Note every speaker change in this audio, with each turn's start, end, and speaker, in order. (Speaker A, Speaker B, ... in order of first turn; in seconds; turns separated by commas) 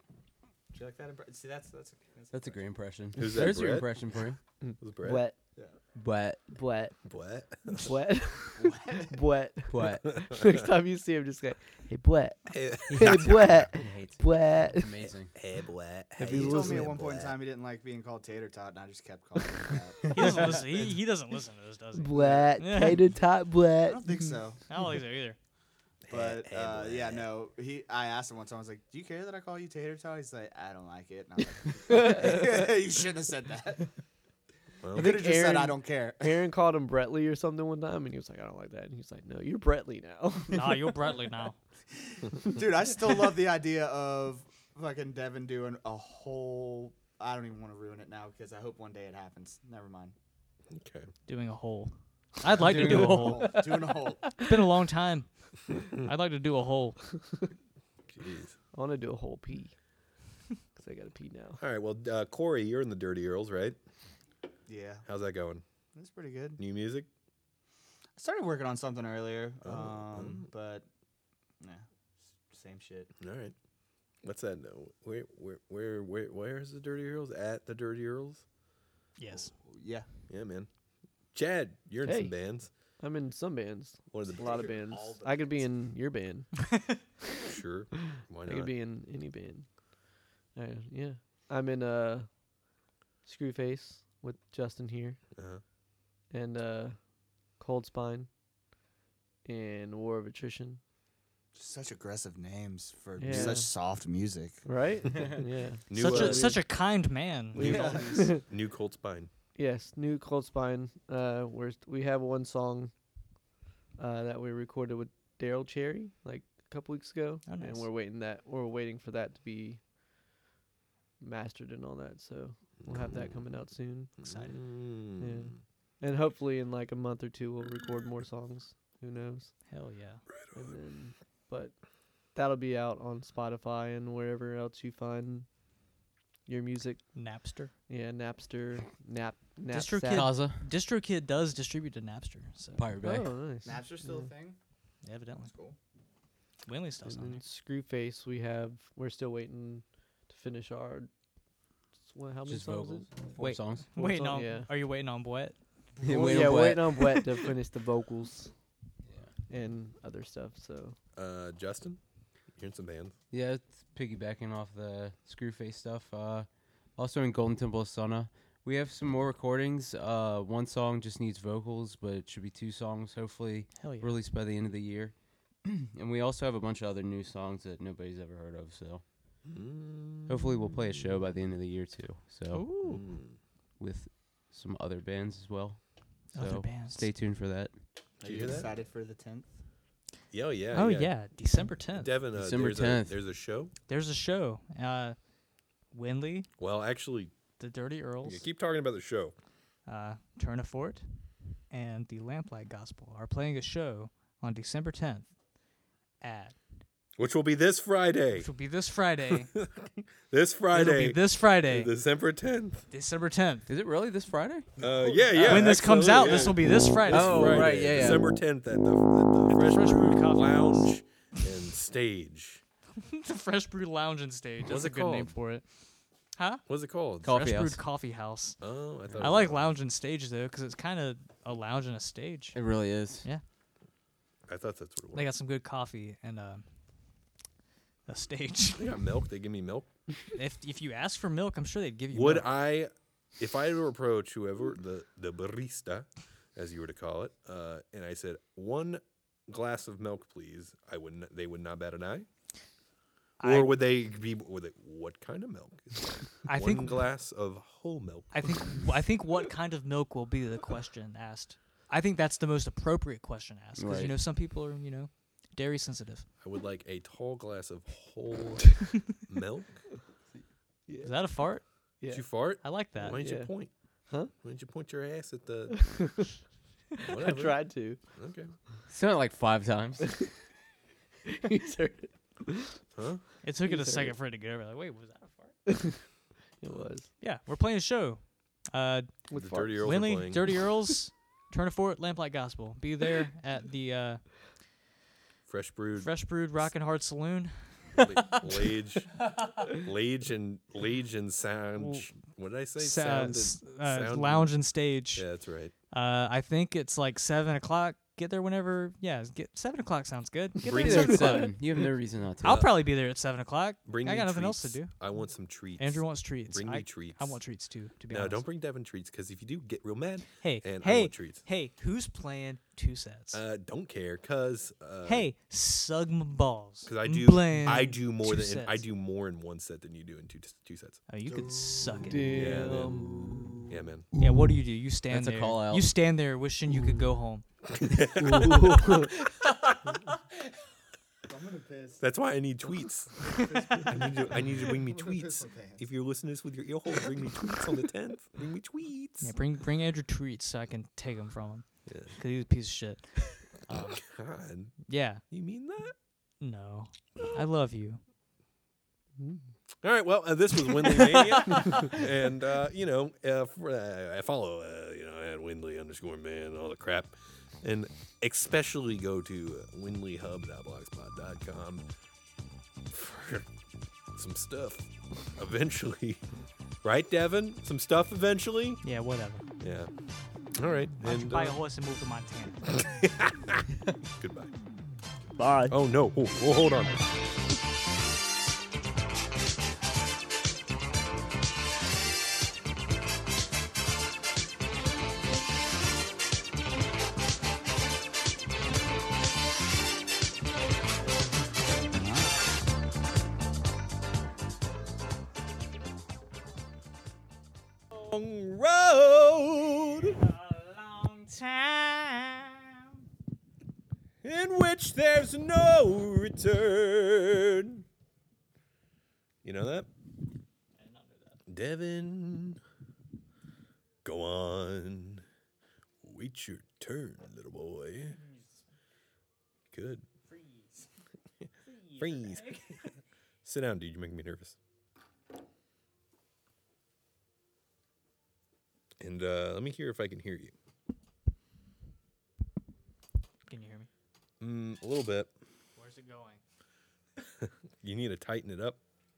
Speaker A: 0.7-2.8, Speaker B: 2.3-4.4, Speaker C: 3.2-3.9, Speaker D: 4.6-5.4, Speaker C: 4.8-5.2, Speaker B: 6.0-6.5, Speaker D: 6.5-7.0, Speaker C: 7.0-7.9, Speaker D: 7.8-14.9, Speaker A: 8.6-9.2, Speaker B: 9.7-10.2, Speaker C: 12.5-13.3, Speaker B: 13.0-15.3, Speaker C: 15.1-17.3, Speaker D: 16.2-16.9, Speaker A: 16.2-20.9, Speaker E: 20.1-23.0, Speaker D: 22.0-24.2, Speaker A: 22.1-22.5, Speaker A: 23.9-24.6, Speaker E: 24.7-25.4, Speaker C: 26.0-27.3, Speaker A: 26.1-33.9, Speaker D: 31.9-32.4, Speaker C: 34.8-35.2, Speaker A: 34.9-36.4, Speaker D: 35.0-41.0, Speaker E: 40.5-41.6, Speaker A: 42.0-50.1, Speaker C: 50.7-51.1, Speaker E: 51.3-53.6, Speaker A: 52.6-54.3, Speaker B: 52.6-53.5, Speaker D: 53.4-54.5, Speaker E: 54.4-57.0, Speaker C: 58.1-58.5, Speaker D: 58.7-59.8, Speaker D: 60.8-61.6, Speaker C: 61.6-63.8, Speaker A: 64.7-65.0, Speaker C: 65.1-65.6, Speaker A: 65.9-66.6, Speaker C: 66.6-67.1, Speaker A: 68.2-70.9, Speaker C: 69.6-70.5, Speaker A: 71.6-73.1, Speaker C: 73.2-73.5, Speaker C: 74.2-78.4, Speaker E: 79.2-79.5, Speaker A: 79.3-80.1, Speaker C: 80.3-80.7, Speaker C: 81.3-82.7, Speaker D: 82.0-82.3, Speaker D: 83.0-86.6, Speaker C: 84.1-84.7, Speaker A: 84.3-85.7, Speaker C: 87.4-88.7, Speaker D: 88.5-89.9, Speaker D: 90.5-92.3, Speaker D: 93.2-95.2, Speaker C: 95.4-95.6, Speaker D: 96.3-97.0, Speaker D: 97.6-98.3, Speaker D: 99.5-100.8, Speaker A: 101.5-104.7, Speaker D: 103.2-103.7, Speaker D: 104.7-106.6, Speaker C: 105.9-106.6, Speaker E: 105.9-108.2, Speaker C: 107.5-109.3, Speaker A: 107.6-108.4, Speaker D: 107.6-108.4, Speaker D: 109.6-112.9, Speaker D: 114.0-119.8, Speaker E: 117.5-117.9, Speaker D: 121.2-124.1, Speaker C: 124.2-125.6, Speaker E: 124.2-124.7, Speaker D: 125.2-129.6, Speaker E: 129.7-130.2, Speaker D: 130.5-131.8, Speaker D: 132.3-135.5, Speaker D: 136.5-137.0, Speaker E: 137.2-137.7, Speaker D: 137.9-140.3, Speaker E: 139.7-142.9, Speaker B: 140.1-140.6, Speaker B: 142.8-143.3, Speaker D: 143.0-144.3, Speaker A: 143.6-144.6, Speaker E: 145.0-145.5, Speaker A: 145.4-145.8, Speaker E: 146.7-147.4, Speaker D: 147.1-151.1, Speaker D: 152.1-153.1, Speaker B: 152.5-153.9, Speaker E: 153.4-155.6, Speaker D: 153.9-154.7, Speaker B: 156.0-157.3, Speaker D: 156.1-158.5, Speaker B: 159.1-159.3, Speaker D: 159.5-160.9, Speaker C: 161.2-162.0, Speaker C: 162.6-163.1, Speaker B: 163.3-179.0, Speaker E: 173.8-174.1, Speaker C: 179.4-180.9, Speaker B: 180.3-182.9, Speaker E: 182.5-183.1, Speaker C: 182.9-183.4, Speaker B: 183.8-187.8, Speaker E: 186.3-187.1, Speaker C: 188.2-188.7, Speaker A: 188.2-189.5, Speaker C: 190.3-191.1, Speaker E: 190.7-192.1, Speaker C: 191.9-193.7, Speaker B: 192.3-193.2, Speaker E: 193.9-195.2, Speaker E: 195.9-196.5, Speaker C: 196.6-197.3, Speaker E: 197.6-198.4, Speaker C: 198.2-199.3, Speaker E: 199.9-205.3, Speaker E: 206.2-206.6, Speaker C: 207.2-208.5, Speaker E: 208.4-209.5, Speaker C: 209.3-212.8, Speaker E: 210.7-211.9, Speaker E: 212.9-213.7, Speaker B: 213.7-214.7, Speaker C: 214.8-222.6, Speaker B: 215.3-215.8, Speaker E: 215.4-217.9, Speaker B: 217.1-218.4, Speaker E: 219.5-221.4, Speaker E: 223.0-225.7, Speaker C: 224.6-225.3, Speaker E: 226.4-226.6, Speaker C: 226.7-227.4, Speaker B: 227.2-227.8, Speaker E: 227.2-228.6, Speaker C: 228.6-229.7, Speaker E: 229.2-232.6, Speaker B: 232.5-233.3, Speaker C: 234.5-235.3, Speaker E: 235.1-236.6, Speaker E: 238.1-238.9, Speaker C: 238.8-239.9, Speaker E: 240.3-242.5, Speaker C: 242.1-252.3, Speaker E: 253.4-253.8, Speaker C: 253.4-258.4, Speaker E: 256.5-257.0, Speaker E: 258.3-266.3, Speaker B: 263.8-264.2, Speaker C: 266.4-269.8, Speaker D: 270.9-271.2, Speaker E: 271.0-271.9, Speaker D: 272.0-273.5, Speaker C: 272.1-273.7, Speaker E: 272.6-273.2, Speaker C: 274.3-276.2, Speaker D: 275.7-276.3, Speaker D: 277.0-278.0, Speaker C: 277.0-278.5, Speaker B: 278.9-280.1, Speaker D: 280.0-280.3, Speaker D: 281.3-282.8, Speaker C: 283.0-283.2, Speaker E: 283.4-285.6, Speaker D: 283.7-284.1, Speaker D: 285.7-286.0, Speaker D: 286.6-287.1, Speaker E: 287.2-289.1, Speaker D: 289.3-289.9, Speaker C: 289.3-290.4, Speaker E: 289.7-294.4, Speaker C: 295.5-296.1, Speaker E: 296.0-298.1, Speaker C: 298.0-304.5, Speaker E: 301.8-302.2, Speaker E: 302.8-305.3, Speaker C: 305.1-305.7, Speaker E: 305.9-311.6, Speaker C: 310.7-311.5, Speaker B: 310.7-312.6, Speaker C: 312.4-312.7, Speaker E: 312.4-314.9, Speaker C: 313.9-317.4, Speaker E: 315.8-318.4, Speaker C: 318.1-321.4, Speaker E: 320.4-323.4, Speaker C: 323.3-325.3, Speaker E: 325.1-328.9, Speaker C: 326.9-331.0, Speaker E: 331.1-332.5, Speaker A: 331.3-332.0, Speaker D: 332.1-333.6, Speaker C: 332.3-334.1, Speaker E: 334.2-337.4, Speaker B: 335.1-335.9, Speaker C: 337.8-339.0, Speaker D: 338.2-339.1, Speaker E: 338.6-339.1, Speaker A: 341.2-342.1, Speaker C: 342.0-349.4, Speaker A: 343.3-345.9, Speaker E: 349.2-354.0, Speaker C: 351.9-352.1, Speaker C: 353.7-354.8, Speaker E: 354.9-355.2, Speaker C: 355.3-355.9, Speaker E: 356.4-358.0, Speaker C: 359.8-371.9, Speaker E: 360.9-361.9, Speaker C: 372.9-373.5, Speaker C: 374.1-376.2, Speaker C: 376.8-378.8, Speaker E: 378.8-379.4, Speaker C: 379.6-379.9, Speaker C: 380.6-381.6, Speaker E: 381.0-382.7, Speaker C: 382.7-383.6, Speaker C: 384.2-384.5, Speaker C: 385.6-387.0, Speaker A: 401.9-402.3, Speaker C: 407.9-410.2, Speaker E: 410.0-412.9, Speaker C: 414.2-417.8, Speaker C: 419.4-419.9, Speaker E: 420.8-421.4, Speaker C: 421.5-422.6, Speaker C: 424.1-425.2, Speaker C: 426.0-428.2, Speaker E: 428.1-428.6, Speaker C: 429.7-430.1, Speaker E: 430.3-430.9, Speaker E: 431.6-432.9, Speaker C: 432.0-432.5, Speaker C: 433.4-434.6, Speaker C: 439.0-440.5, Speaker E: 443.5-443.9, Speaker C: 444.4-445.3, Speaker E: 445.8-446.4, Speaker C: 447.4-448.8